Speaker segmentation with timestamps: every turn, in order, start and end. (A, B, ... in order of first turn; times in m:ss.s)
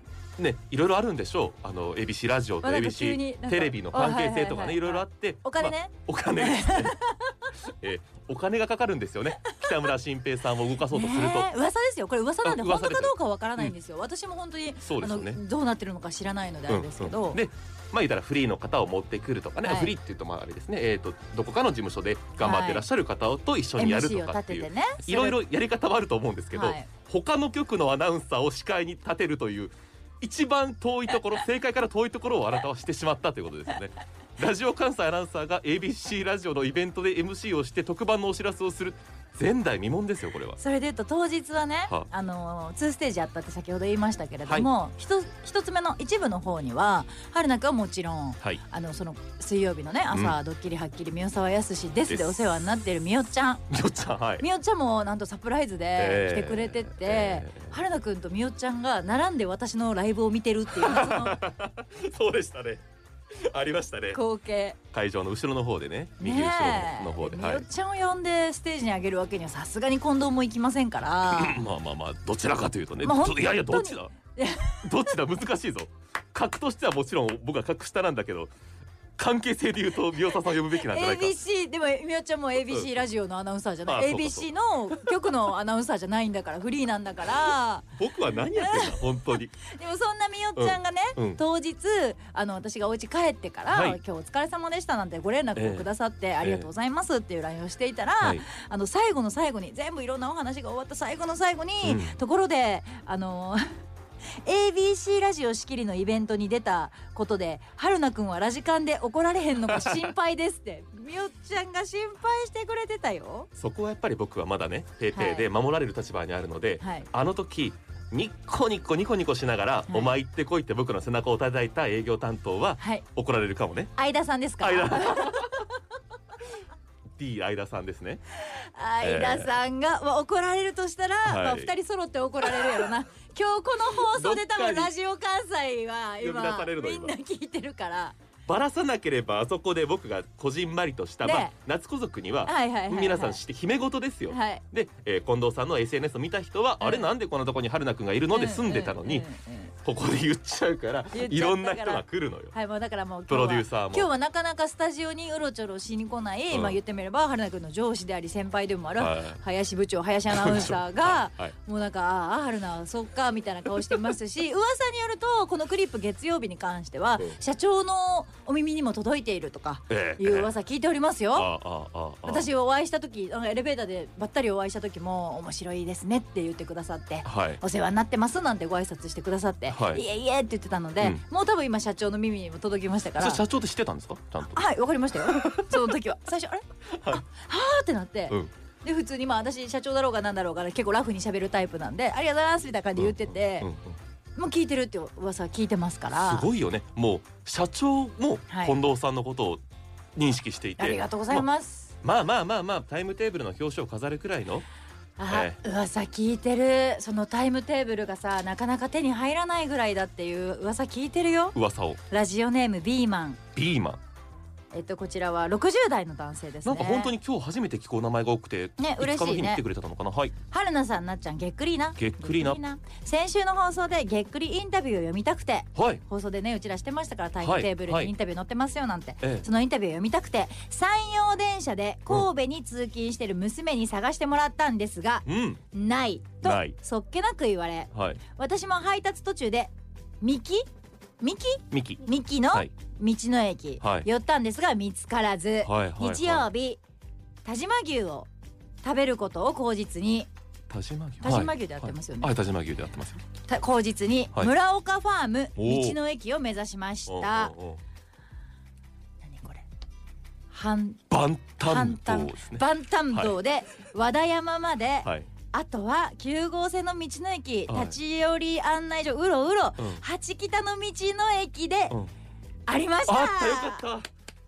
0:00.4-0:07.0 A
0:02.6-0:07.5 B
0:07.6-0:11.5 A
0:09.4-0:09.9 B
0:10.8-0:17.4 B
0:12.4-0:13.8 A
0:14.8-0:15.4 A
0:16.7-0:40.6 A
0:19.6-0:19.9 B
0:22.4-0:22.8 B
0:23.8-0:25.4 B
0:26.5-0:26.9 B
0:40.6-0:53.6 B
0:50.1-0:50.4 A
0:52.1-0:52.7 A
0:53.7-0:54.4 A
0:54.4-1:01.4 B
0:56.0-0:57.8 A
1:00.7-1:04.2 A
1:04.1-1:04.8 B
1:04.9-1:07.6 A
1:06.2-1:11.6 B
1:11.2-1:14.1 A
1:13.0-1:14.9 B
1:14.8-1:18.5 A
1:19.2-1:21.4 A
1:20.6-1:27.8 B
1:22.7-1:22.9 A
1:23.9-1:25.3 A
1:28.0-1:29.5 A
1:28.4-1:43.7 B
1:30.6-1:31.4 A
1:33.7-1:34.0 A
1:35.6-1:35.9 A
1:36.4-1:36.7 A
1:41.8-1:42.2 A
1:44.4-1:53.5 B
1:49.7-1:50.1 A
1:53.6-2:03.9 A
1:55.1-1:55.5 B
1:56.8-1:57.1 B
2:04.0-2:05.4 B
2:04.6-2:05.7 A
2:07.2-2:08.2 A
2:08.4-2:18.2 B
2:09.0-2:09.5 A
2:11.2-2:11.7 A
2:12.4-2:13.0 A
2:13.9-2:14.9 A
2:16.2-2:17.2 A
2:18.5-2:29.3 A
2:21.2-2:21.5 B
2:22.4-2:23.4 B
2:24.3-2:24.6 B
2:26.8-2:27.1 B
2:28.3-2:29.7 B
2:29.8-2:32.5 A
2:31.1-2:51.5 B
2:33.3-2:34.1 A
2:36.5-2:36.8 A
2:39.0-2:39.4 A
2:40.3-2:41.5 A
2:43.7-2:44.1 A
2:49.9-2:50.5 A
2:51.3-2:52.5 A
2:52.2-3:03.4 B
2:57.2-2:57.6 A
2:59.7-3:00.0 A
3:03.2-3:05.9 A
3:04.5-3:13.7 B
3:06.9-3:07.2 A
3:13.0-3:14.0 A
3:14.4-3:16.5 B
3:16.1-3:19.6 A
3:18.5-3:18.7 B
3:20.2-3:21.4 A
3:20.8-3:21.9 B
3:22.0-3:24.6 A
3:25.2-3:31.6 B
3:25.3-3:25.6 A
3:31.5-3:32.0 A
3:32.1-3:33.4 B
3:33.5-3:34.0 A
3:34.7-3:37.1 B
3:36.6-3:40.3 A
3:38.8-3:39.6 B
3:40.5-4:00.7 B
3:42.0-3:42.6 A
3:45.7-3:46.0 A
3:47.4-3:48.1 A
3:49.2-3:49.5 A
3:55.2-3:55.6 A
3:56.4-3:56.8 A
3:57.9-3:58.2 A
4:01.2-4:06.8 B
4:01.7-4:02.7 A
4:03.8-4:04.1 A
4:05.6-4:06.5 A
4:07.4-4:08.3 B
4:08.8-4:10.3 B
4:10.7-4:13.2 A
4:11.2-4:12.4 B
4:13.4-4:17.5 B
4:15.6-4:16.0 A
4:17.1-4:17.8 A
4:19.2-4:19.6 B
4:20.5-4:21.0 B
4:21.1-4:23.4 A
4:21.6-4:32.0 B
4:25.0-4:25.3 A
4:27.7-4:28.0 A
4:32.7-4:33.8 B
4:33.0-4:34.1 A